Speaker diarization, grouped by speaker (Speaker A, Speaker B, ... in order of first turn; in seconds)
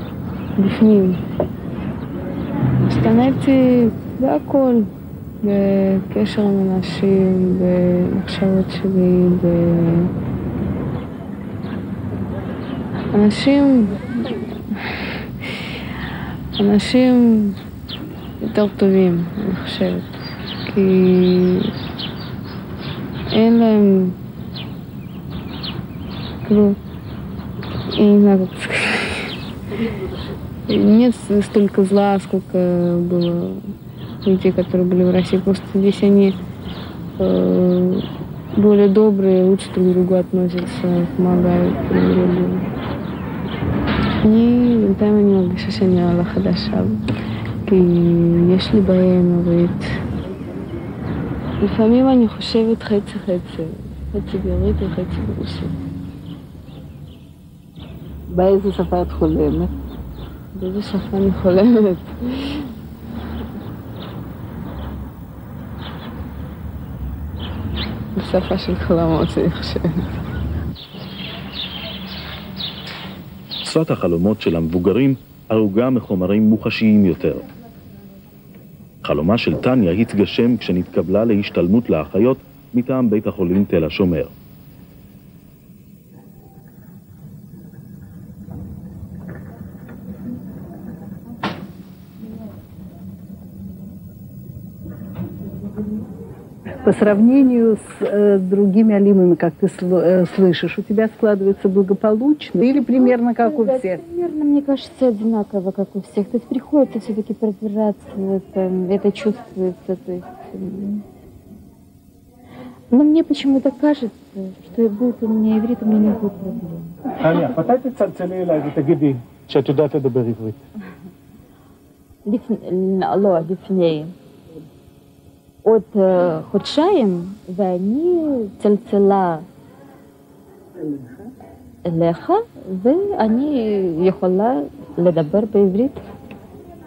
Speaker A: 0.6-1.2, 2.8-4.9, 5.4-10.1, 13.1-14.0, 16.6-17.6, 18.4-20.1, 20.6-21.7, 23.3-24.1, 26.4-26.8, 27.9-29.2, 30.7-33.6, 34.2-36.3, 37.2-38.0, 38.5-42.6, 44.2-47.0, 47.6-49.9, 51.6-55.7, 60.5-62.5, 68.2-70.0
Speaker B: 29.7-30.4, 58.3-59.7, 96.8-104.0, 130.8-131.3
Speaker C: 73.6-77.5, 79.0-84.3
Speaker D: 103.0-111.0, 112.9-116.9, 122.2-124.1, 125.6-129.4, 131.8-136.0
Speaker E: 117.2-120.6